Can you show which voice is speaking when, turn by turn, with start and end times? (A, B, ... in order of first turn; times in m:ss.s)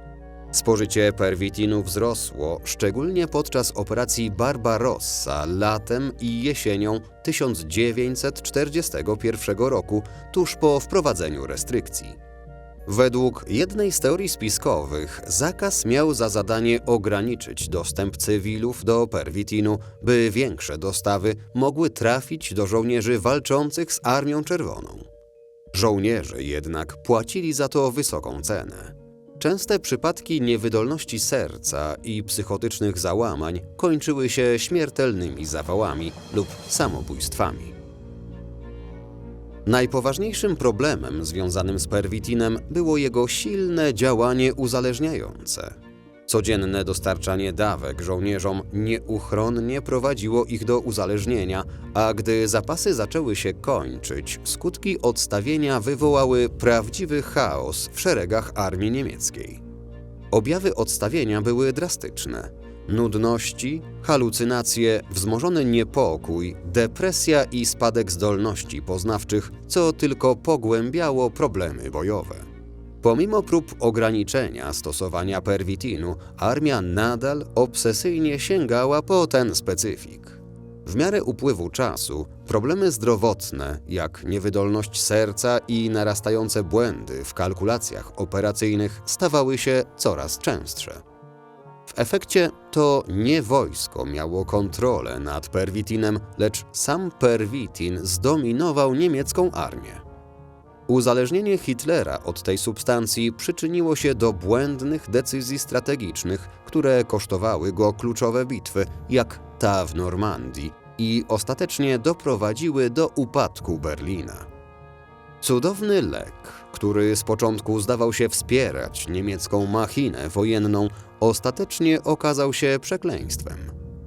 0:00.5-0:12.2 A
0:12.8-0:25.1 A
0:25.7-0:37.7 A
0:39.6-0:45.8 A
0:46.3-0:59.6 A
1:00.3-1:12.4 A
1:13.0-1:31.0 A
1:31.9-1:40.0 A
1:40.9-1:54.5 A
1:55.4-2:03.7 A